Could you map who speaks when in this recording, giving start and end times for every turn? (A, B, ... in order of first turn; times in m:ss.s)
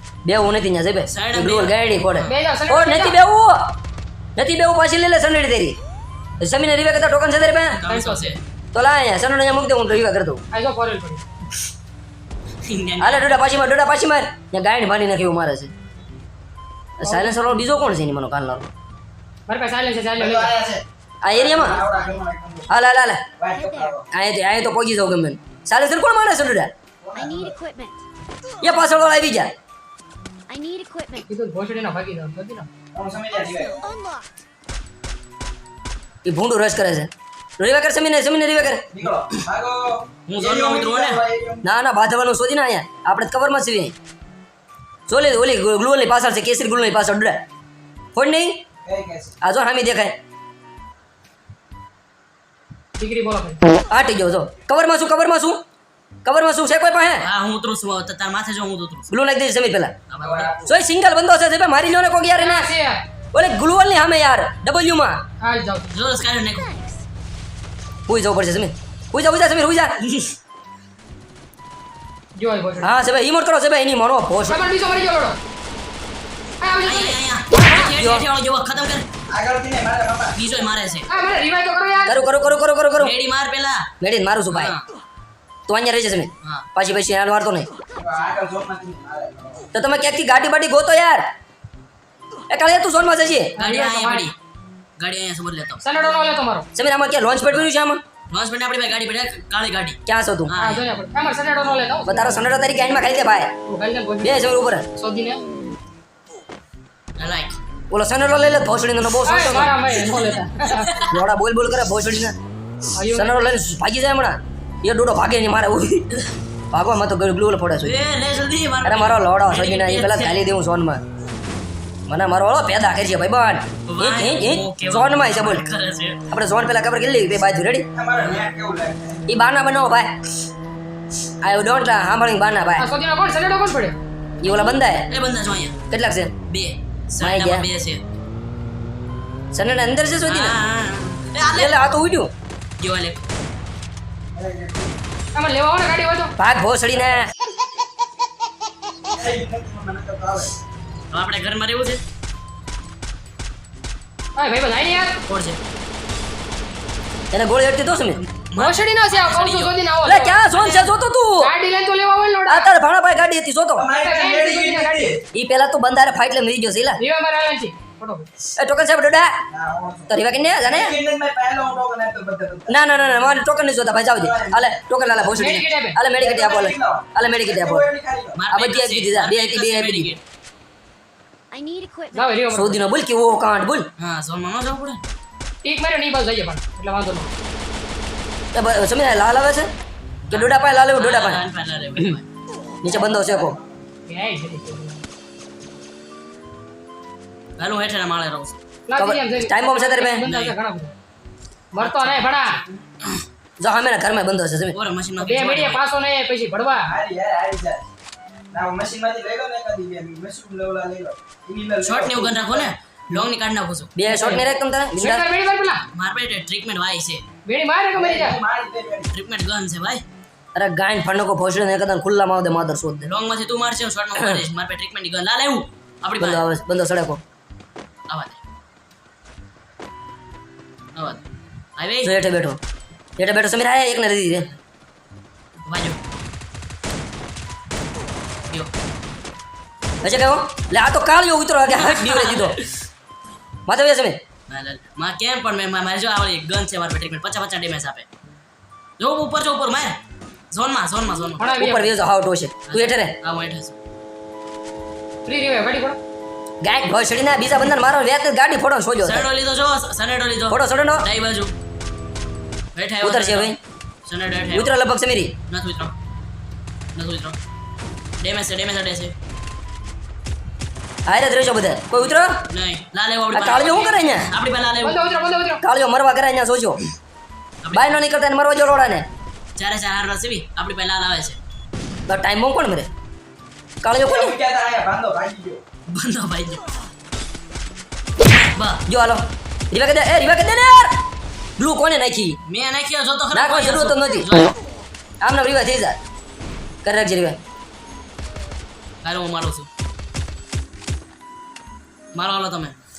0:00.2-0:03.7 A
0:01.1-0:02.3 B
0:02.2-0:03.2 C
0:04.4-0:05.8 A
0:06.4-0:07.8 A
0:07.7-0:08.4 B
0:07.9-0:08.4 C
0:08.7-0:10.4 A
0:10.5-0:11.2 C
0:12.7-0:13.4 B
0:13.0-0:15.7 A
0:17.0-0:18.7 A
0:17.0-0:17.6 C
0:19.5-0:20.5 C
0:20.2-0:22.7 D
0:21.2-0:21.8 A
0:21.5-0:22.3 E
0:22.7-0:23.2 A
0:23.4-0:24.0 D
0:23.5-0:24.0 E
0:24.1-0:26.7 A
0:27.0-0:27.6 D
0:27.2-0:28.0 E
0:28.6-0:29.5 A
0:30.5-0:31.3 E
0:31.3-0:32.7 C
0:32.9-0:33.8 D
0:33.3-0:34.3 E
0:36.2-0:38.8 A
0:38.9-0:41.6 D
0:40.3-0:41.2 B
0:41.6-0:43.9 A
0:45.1-0:47.4 A
0:48.2-0:48.6 A
0:48.8-0:49.4 D
0:49.4-0:50.2 A
0:53.0-0:53.6 C
0:53.9-0:55.6 A
0:56.2-0:57.3 A
0:57.2-0:59.1 B
0:59.1-1:00.0 A
1:00.1-1:00.5 B
1:00.2-1:00.8 D
1:00.7-1:02.7 A
1:02.4-1:03.0 C
1:03.3-1:05.2 A
1:05.4-1:05.9 C
1:05.9-1:06.7 B
1:06.2-1:07.0 E
1:08.1-1:10.0 A
1:10.0-1:10.3 B
1:12.4-1:13.0 C
1:12.8-1:14.6 A
1:14.5-1:15.4 C
1:16.6-1:17.9 C
1:16.8-1:19.0 B
1:18.0-1:18.3 A
1:19.3-1:20.4 D
1:20.4-1:21.1 B
1:21.1-1:22.2 C
1:22.1-1:23.2 A
1:23.0-1:23.9 B
1:24.0-1:24.7 A
1:24.5-1:24.9 B
1:25.7-1:27.7 A
1:28.0-1:29.6 D
1:29.7-1:31.3 A
1:32.5-1:33.6 A
1:33.6-1:34.3 C
1:33.6-1:34.4 B
1:35.0-1:35.8 B
1:35.8-1:36.7 C
1:36.8-1:38.0 A
1:38.3-1:40.8 B
1:40.1-1:40.5 A
1:40.6-1:42.4 C
1:42.1-1:43.5 A
1:43.7-1:44.4 C
1:44.2-1:44.9 A
1:45.0-1:45.4 C
1:47.2-1:47.6 B
1:47.9-1:49.8 A
1:49.2-1:51.0 C
1:50.1-1:51.2 B
1:51.1-1:52.4 A
1:53.0-1:53.7 C
1:53.1-1:56.0 A
1:56.7-1:58.0 A
1:57.8-2:00.4 B
1:58.8-2:01.0 A
2:02.1-2:05.6 A
2:03.9-2:06.2 B
2:06.3-2:07.8 A
2:08.0-2:09.2 D
2:09.3-2:10.1 A
2:11.4-2:12.9 A
2:12.8-2:14.0 C
2:14.4-2:15.1 A
2:15.1-2:15.8 B
2:15.9-2:16.3 A
2:16.5-2:18.0 B
2:17.2-2:17.7 A
2:19.5-2:20.6 A
2:20.2-2:21.8 B
2:21.5-2:22.3 A
2:22.8-2:23.3 B
2:24.3-2:25.0 D
2:25.3-2:26.4 C
2:26.4-2:27.3 A
2:29.1-2:30.5 D
2:31.1-2:32.0 B
2:34.4-2:35.2 C
2:35.3-2:35.6 B
2:37.3-2:38.2 A
2:38.4-2:39.8 B
2:38.6-2:40.4 C
2:40.0-2:41.5 A
2:40.5-2:40.9 B
2:41.4-2:42.7 C
2:42.5-2:43.9 A
2:43.8-2:45.2 D
2:44.0-2:45.2 C
2:45.3-2:47.0 A
2:47.0-2:48.3 C
2:48.6-2:49.4 A
2:49.5-2:50.1 D
2:50.1-2:51.0 A
2:50.6-2:52.8 D
2:52.7-2:57.9 A
2:54.1-2:54.8 D
2:55.3-2:56.0 C
2:56.2-2:58.4 D
2:58.4-3:00.2 B
2:58.5-3:00.1 A
3:01.5-3:02.5 E
3:02.1-3:02.8 C
3:02.5-3:03.9 A
3:04.0-3:05.0 B
3:05.6-3:07.3 C
3:08.5-3:09.7 A
3:10.3-3:11.4 A
3:10.3-3:12.3 B
3:12.8-3:13.6 A
3:13.0-3:13.6 D
3:14.1-3:15.0 C
3:17.6-3:18.6 B
3:18.9-3:20.9 C
3:19.0-3:20.3 A
3:20.3-3:20.6 B
3:21.7-3:22.6 C
3:21.8-3:23.2 B
3:23.6-3:24.8 A
3:24.7-3:25.8 B
3:25.2-3:26.9 C
3:26.9-3:27.8 D
3:28.5-3:33.3 D
3:31.8-3:34.0 B
3:34.0-3:35.2 A
3:34.1-3:34.4 C
3:35.0-3:35.8 C
3:35.9-3:37.2 B
3:37.5-3:38.4 C
3:38.0-3:39.1 D
3:39.1-3:40.0 B
3:40.6-3:43.1 A
3:43.1-3:46.4 B
3:44.2-3:44.4 A
3:46.2-3:47.2 A
3:48.1-3:48.4 B
3:51.0-3:51.2 B
3:51.8-3:52.1 B
3:52.0-3:52.6 A
3:53.2-3:54.5 A
3:55.7-3:56.0 B
4:00.0-4:02.6 A
4:01.8-4:02.7 B
4:03.7-4:04.2 A
4:04.5-4:08.1 B
4:09.0-4:10.0 B
4:10.5-4:11.4 B
4:11.4-4:11.9 C
4:11.4-4:13.1 A
4:12.7-4:13.8 B
4:15.3-4:16.0 C
4:16.6-4:19.3 A
4:19.0-4:21.5 B
4:20.5-4:21.1 A
4:22.8-4:23.6 B
4:23.0-4:23.6 A
4:24.1-4:24.7 B
4:24.5-4:25.4 A
4:25.5-4:26.0 B
4:27.0-4:27.4 B
4:28.2-4:29.1 B
4:31.1-4:32.4 A
4:32.5-4:35.0 B
4:33.3-4:34.3 A
4:34.8-4:35.6 C
4:35.6-4:36.8 A
4:37.6-4:38.0 B
4:37.7-4:39.1 A
4:39.6-4:41.4 B
4:42.1-4:42.9 A
4:43.8-4:44.4 A
4:44.0-4:45.6 D
4:45.9-4:46.7 B
4:48.2-4:48.8 B
4:48.9-4:51.0 A
4:51.6-4:52.4 A
4:52.5-4:54.5 B
4:53.3-4:54.4 A
4:55.2-4:56.0 A
4:56.8-4:57.4 A
4:59.0-4:59.7 B
5:02.1-5:02.8 B